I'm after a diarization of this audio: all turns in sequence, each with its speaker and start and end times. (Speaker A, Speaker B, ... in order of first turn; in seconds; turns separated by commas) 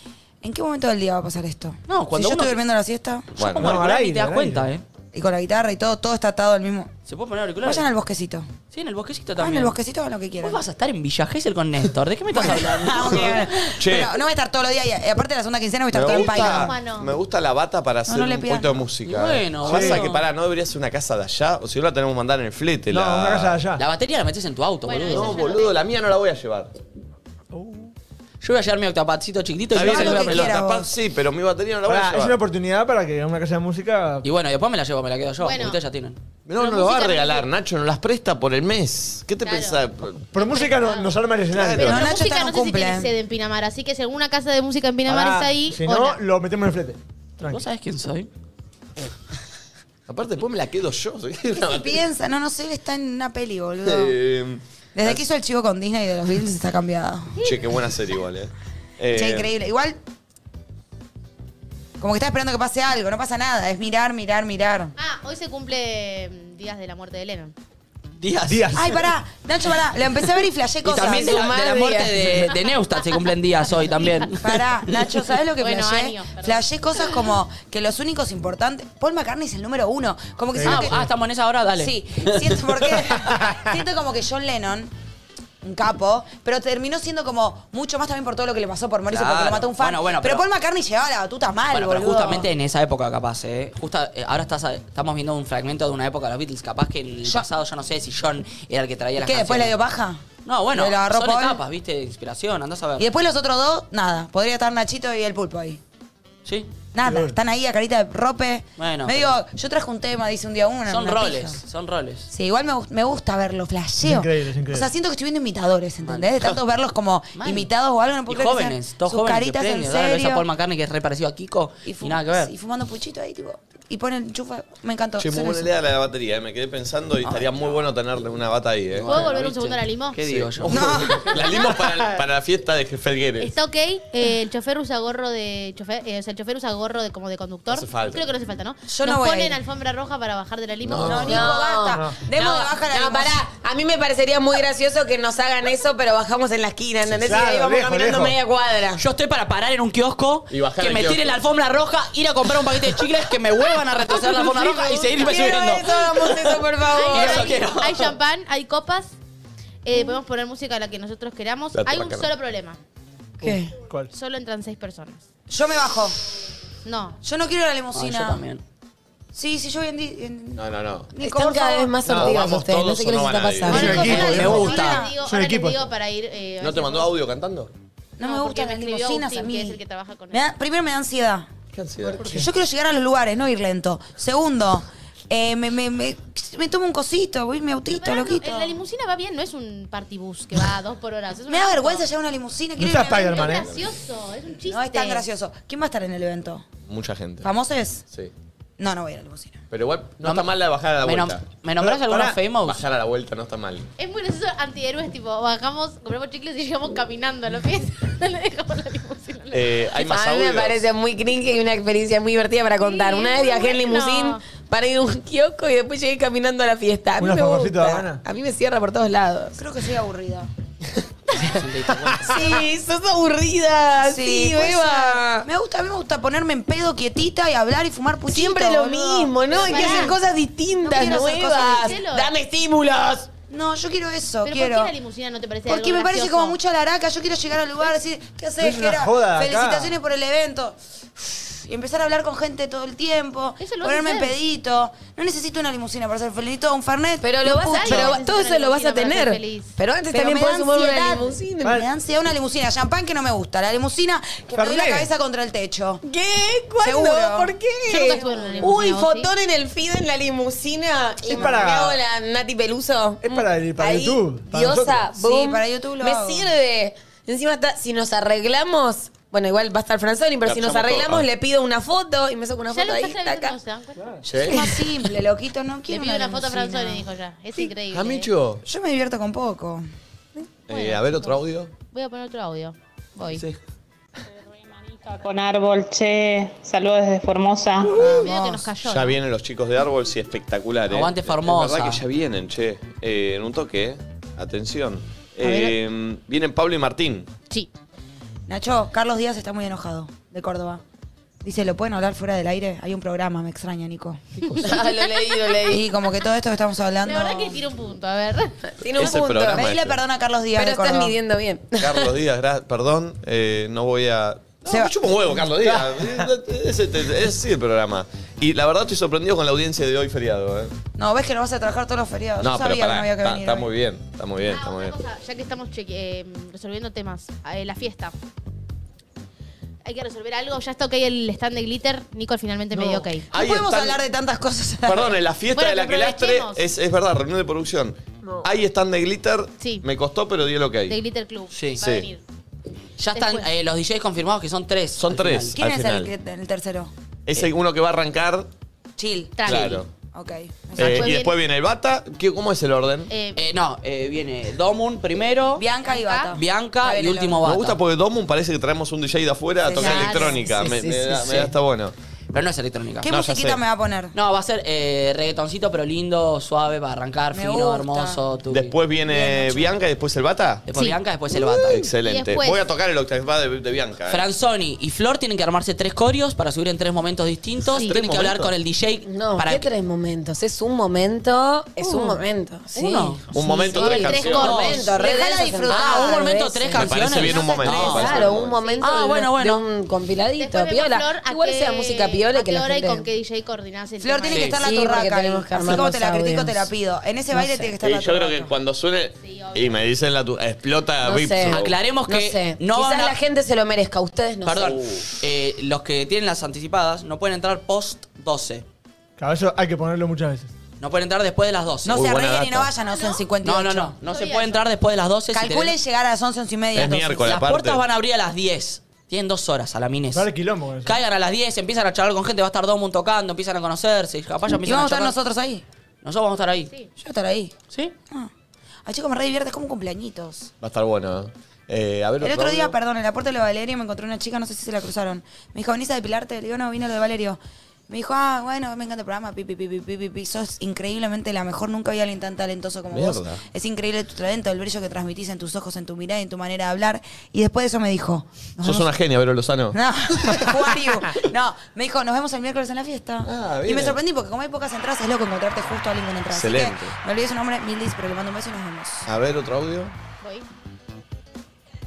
Speaker A: 0.4-3.4, Speaker B: 1.9-2.6, Speaker C: 3.4-3.9, Speaker B: 3.4-4.8, Speaker D: 3.6-4.7, Speaker A: 5.1-6.9, Speaker B: 7.1-7.8, Speaker A: 7.6-8.5, Speaker B: 8.7-9.7, Speaker A: 9.4-10.6, Speaker B: 10.4-13.7, Speaker A: 12.3-16.8, Speaker C: 13.0-14.1, Speaker C: 15.9-23.6, Speaker E: 16.1-17.2, Speaker A: 18.1-18.8, Speaker B: 19.0-20.2, Speaker D: 19.6-20.1, Speaker D: 22.9-23.8, Speaker B: 23.8-25.4, Speaker E: 24.9-25.7, Speaker C: 25.1-26.7, Speaker D: 27.5-27.9, Speaker B: 28.4-30.6, Speaker C: 29.7-32.4, Speaker A: 29.7-30.9, Speaker D: 31.8-34.2, Speaker B: 34.2-36.2, Speaker E: 35.4-35.8, Speaker C: 36.5-40.3, Speaker E: 36.6-37.5, Speaker E: 39.4-39.8, Speaker D: 40.3-42.0, Speaker E: 40.3-46.2, Speaker A: 41.7-43.1, Speaker D: 45.0-47.6, Speaker B: 47.5-48.3, Speaker C: 50.1-52.0, Speaker A: 51.6-54.1, Speaker C: 53.8-55.2, Speaker A: 54.9-57.4, Speaker C: 57.4-59.5, Speaker A: 59.1-60.0, Speaker A: 62.0-64.9, Speaker E: 65.0-67.5, Speaker B: 68.2-68.7, Speaker D: 68.5-69.1, Speaker A: 68.7-71.5, Speaker B: 70.8-74.5, Speaker F: 71.0-72.5, Speaker A: 74.3-81.0, Speaker E: 75.6-76.7, Speaker D: 80.6-81.0, Speaker B: 80.6-83.3, Speaker A: 81.8-84.9, Speaker A: 85.6-92.5, Speaker B: 89.1-90.4, Speaker B: 91.7-99.8, Speaker A: 99.2-101.6, Speaker B: 100.4-103.0, Speaker A: 103.0-105.8, Speaker B: 106.4-106.7, Speaker A: 106.9-111.6, Speaker D: 107.0-107.3, Speaker B: 108.8-109.4, Speaker B: 110.9-112.3, Speaker A: 112.3-120.5, Speaker D: 114.0-114.9, Speaker B: 116.0-116.3, Speaker B: 117.3-117.7, Speaker B: 118.3-122.5, Speaker A: 121.8-125.7, Speaker C: 125.2-129.1, Speaker A: 127.2-127.7, Speaker B: 128.9-131.1, Speaker E: 129.1-130.2, Speaker C: 130.2-133.5, Speaker A: 130.7-131.4, Speaker E: 133.4-141.6, Speaker C: 137.7-138.3, Speaker A: 138.9-139.6, Speaker C: 140.8-141.4, Speaker A: 141.0-143.4, Speaker F: 141.2-149.0, Speaker D: 141.9-142.2, Speaker D: 147.1-148.4, Speaker B: 149.0-158.1, Speaker C: 150.5-151.4, Speaker F: 154.1-157.6, Speaker E: 156.9-159.1, Speaker E: 159.8-162.8, Speaker C: 161.7-162.3, Speaker A: 163.4-163.7, Speaker D: 163.4-164.1, Speaker E: 164.1-165.2, Speaker A: 165.5-166.1, Speaker E: 166.8-167.2, Speaker A: 167.2-168.4, Speaker B: 167.9-168.6, Speaker A: 169.3-172.0, Speaker C: 170.6-171.1, Speaker F: 171.2-174.1, Speaker C: 172.1-174.5, Speaker E: 173.7-177.1, Speaker D: 173.7-175.8, Speaker A: 173.7-175.1, Speaker C: 176.6-177.7, Speaker A: 178.2-179.8, Speaker E: 178.2-180.5, Speaker A: 180.3-181.5, Speaker C: 181.7-182.3, Speaker A: 182.2-188.8, Speaker E: 187.9-192.1, Speaker A: 191.5-193.6, Speaker D: 192.8-193.7, Speaker E: 193.1-195.2, Speaker A: 194.6-196.7, Speaker C: 196.9-197.5, Speaker A: 197.4-198.0, Speaker A: 198.8-199.6, Speaker C: 199.7-201.4, Speaker B: 200.2-200.5, Speaker B: 201.0-202.8, Speaker D: 201.8-202.4, Speaker C: 202.6-203.9, Speaker E: 204.0-209.8, Speaker C: 209.5-210.9, Speaker F: 210.0-219.6, Speaker E: 212.8-214.4, Speaker D: 217.2-218.2, Speaker A: 219.6-220.5, Speaker B: 221.4-222.3, Speaker F: 222.2-225.5, Speaker A: 224.0-230.2, Speaker F: 228.3-233.3, Speaker E: 229.5-230.2, Speaker A: 230.8-232.0, Speaker E: 231.7-232.3, Speaker A: 233.5-234.9, Speaker E: 234.4-236.6, Speaker A: 235.7-248.2, Speaker D: 238.6-239.9, Speaker E: 243.6-244.3, Speaker F: 247.2-251.8, Speaker E: 247.7-249.7, Speaker A: 250.1-256.0, Speaker D: 254.5-255.1, Speaker F: 256.0-273.6, Speaker A: 256.8-257.5, Speaker E: 257.9-259.3, Speaker D: 261.3-262.0, Speaker D: 263.2-265.1, Speaker A: 265.1-266.5, Speaker C: 270.4-271.3, Speaker E: 272.7-274.1, Speaker C: 274.2-274.8, Speaker A: 274.4-277.1, Speaker E: 275.9-278.3, Speaker C: 277.9-278.6, Speaker A: 278.6-279.8, Speaker C: 280.7-281.7, Speaker E: 280.7-283.4, Speaker C: 283.3-283.6, Speaker G: 284.7-288.0, Speaker E: 287.9-289.2, Speaker C: 288.8-297.3, Speaker B: 290.9-292.0, Speaker E: 295.4-295.7, Speaker A: 298.5-300.8, Speaker A: 301.4-304.2, Speaker E: 304.4-305.8, Speaker F: 304.6-305.8, Speaker A: 305.7-307.6, Speaker E: 307.0-308.5, Speaker F: 308.8-309.7, Speaker C: 308.9-310.0, Speaker A: 309.4-311.2, Speaker F: 310.5-312.1, Speaker C: 311.8-320.7, Speaker A: 314.6-314.9, Speaker D: 315.5-316.2, Speaker A: 321.0-323.7, Speaker C: 322.4-324.9, Speaker E: 324.4-328.1, Speaker E: 329.8-333.2, Speaker A: 332.7-335.1, Speaker C: 333.3-334.0, Speaker C: 334.9-341.0, Speaker E: 335.5-336.7, Speaker E: 339.6-339.8, Speaker E: 340.9-342.2, Speaker B: 341.5-341.8, Speaker C: 341.8-342.1, Speaker B: 343.0-345.6, Speaker E: 343.1-343.5, Speaker C: 345.0-346.1, Speaker A: 345.6-346.9, Speaker C: 347.3-348.5, Speaker A: 349.0-351.1, Speaker E: 349.4-349.8, Speaker C: 349.4-349.9, Speaker C: 350.8-353.1, Speaker E: 350.8-351.3, Speaker E: 353.1-353.4, Speaker B: 353.3-355.6, Speaker A: 355.6-357.4, Speaker E: 355.8-356.4, Speaker B: 356.3-357.8, Speaker C: 357.4-361.9, Speaker A: 359.6-360.4, Speaker E: 359.8-360.3, Speaker F: 360.0-361.5, Speaker B: 362.3-363.1, Speaker A: 363.0-364.1, Speaker C: 363.1-363.6, Speaker B: 364.1-368.7, Speaker A: 367.3-368.2, Speaker C: 368.5-370.6, Speaker A: 369.1-369.7, Speaker B: 370.7-371.8, Speaker C: 371.5-374.2, Speaker E: 371.9-372.6, Speaker B: 374.1-379.7, Speaker C: 377.7-378.5, Speaker F: 379.1-387.1, Speaker B: 381.8-384.9, Speaker C: 383.3-384.6, Speaker E: 383.7-385.1, Speaker A: 384.9-386.4, Speaker B: 385.7-388.1, Speaker C: 386.7-388.6, Speaker A: 387.3-388.1, Speaker F: 387.6-393.1, Speaker E: 388.2-389.0, Speaker B: 388.8-389.6, Speaker E: 390.4-395.0, Speaker A: 394.0-398.5, Speaker F: 394.5-396.7, Speaker F: 397.3-397.6, Speaker C: 397.8-401.8, Speaker E: 399.2-399.8, Speaker F: 401.0-404.8, Speaker B: 401.5-403.1, Speaker B: 404.4-408.6, Speaker C: 404.7-405.0, Speaker D: 409.2-410.5, Speaker B: 410.8-412.1, Speaker A: 411.9-413.9, Speaker C: 411.9-412.7, Speaker E: 412.8-413.3, Speaker B: 413.4-415.7, Speaker E: 414.0-414.7, Speaker A: 415.3-417.4, Speaker C: 416.7-417.8, Speaker B: 417.2-420.3, Speaker D: 420.1-421.0, Speaker B: 420.8-425.2, Speaker A: 424.5-425.6, Speaker B: 426.0-426.7, Speaker A: 427.0-427.5, Speaker A: 428.8-430.5, Speaker C: 430.6-432.7, Speaker A: 432.2-448.9, Speaker C: 442.9-443.4, Speaker C: 448.6-449.8, Speaker A: 449.7-459.1, Speaker C: 453.2-454.0, Speaker C: 456.3-456.9, Speaker C: 459.1-459.9, Speaker E: 460.2-460.5